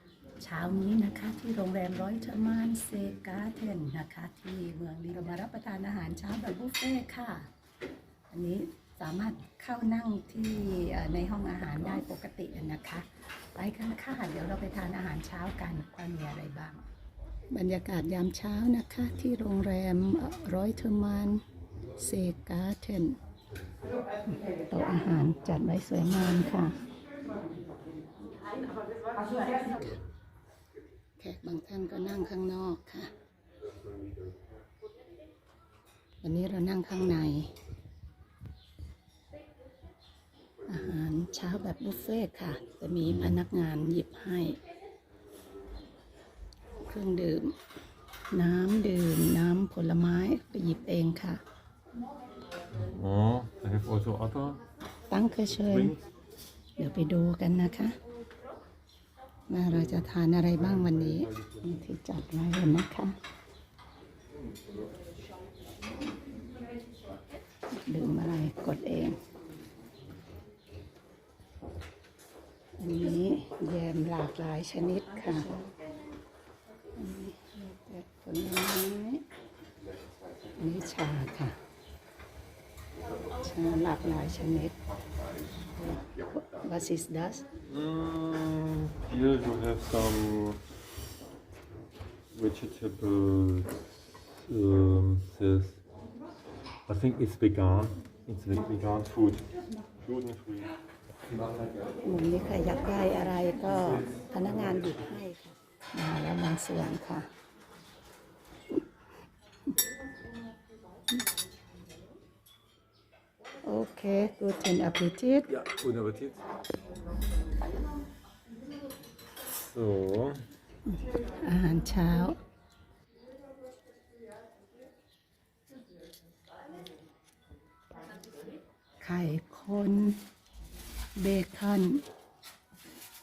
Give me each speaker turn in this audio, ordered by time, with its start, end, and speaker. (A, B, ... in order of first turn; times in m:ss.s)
0:00.4-0:07.5 A
0:08.3-0:16.9 A
0:17.5-0:21.4 A
0:22.0-0:23.2 A
0:24.5-0:26.8 A
0:29.5-0:30.0 A
0:31.2-0:33.1 A
0:36.2-0:37.5 A
0:40.7-0:44.6 A
0:43.1-0:43.4 B
0:46.8-0:47.6 A
0:48.3-0:51.4 A
0:52.7-0:54.6 B
0:55.1-0:56.0 A
0:55.7-0:56.0 B
0:56.8-0:58.0 A
0:59.5-1:03.2 A
1:07.7-1:09.2 A
1:12.8-1:15.7 A
1:17.0-1:19.2 A
1:20.6-1:21.6 A
1:23.4-1:24.8 A
1:26.3-1:27.4 A
1:27.7-1:30.6 B
1:32.3-1:35.8 B
1:36.9-1:40.7 B
1:42.0-1:47.3 A
1:53.6-1:55.5 A
1:55.5-1:56.6 B
1:59.4-2:00.5 B
2:00.9-2:02.4 A
2:09.0-2:10.2 A
2:11.2-2:12.0 A